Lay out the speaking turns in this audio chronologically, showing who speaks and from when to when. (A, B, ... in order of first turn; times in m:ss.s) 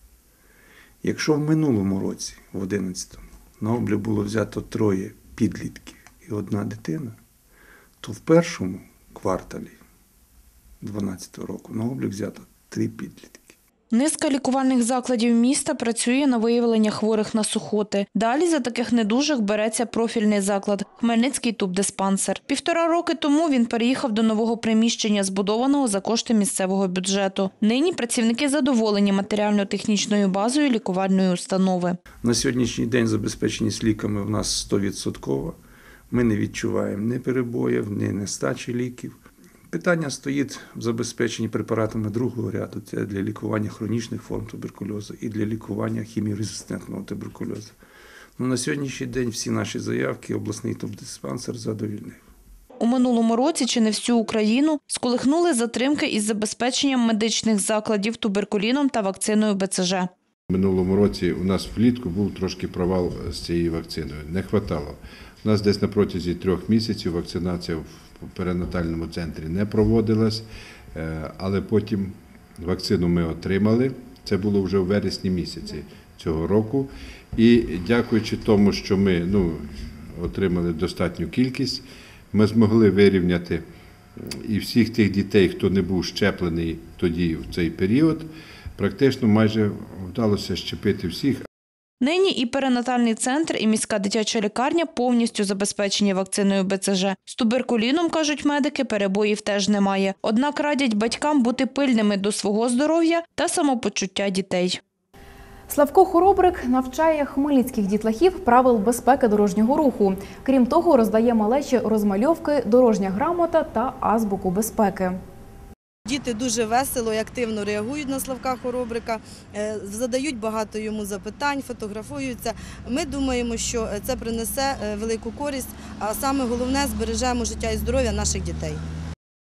0:01.0-0:07.2 A
0:08.0-0:09.8 A
0:10.8-0:13.5 A
0:13.9-0:32.0 B
0:32.2-0:35.6 A
0:36.1-0:39.2 A
0:39.7-0:47.7 A
0:48.4-0:52.2 A
0:52.8-1:00.1 B
1:00.5-1:23.6 C
1:24.5-1:31.4 C
1:32.0-1:44.8 B
1:45.7-1:55.2 D
1:56.0-2:08.8 E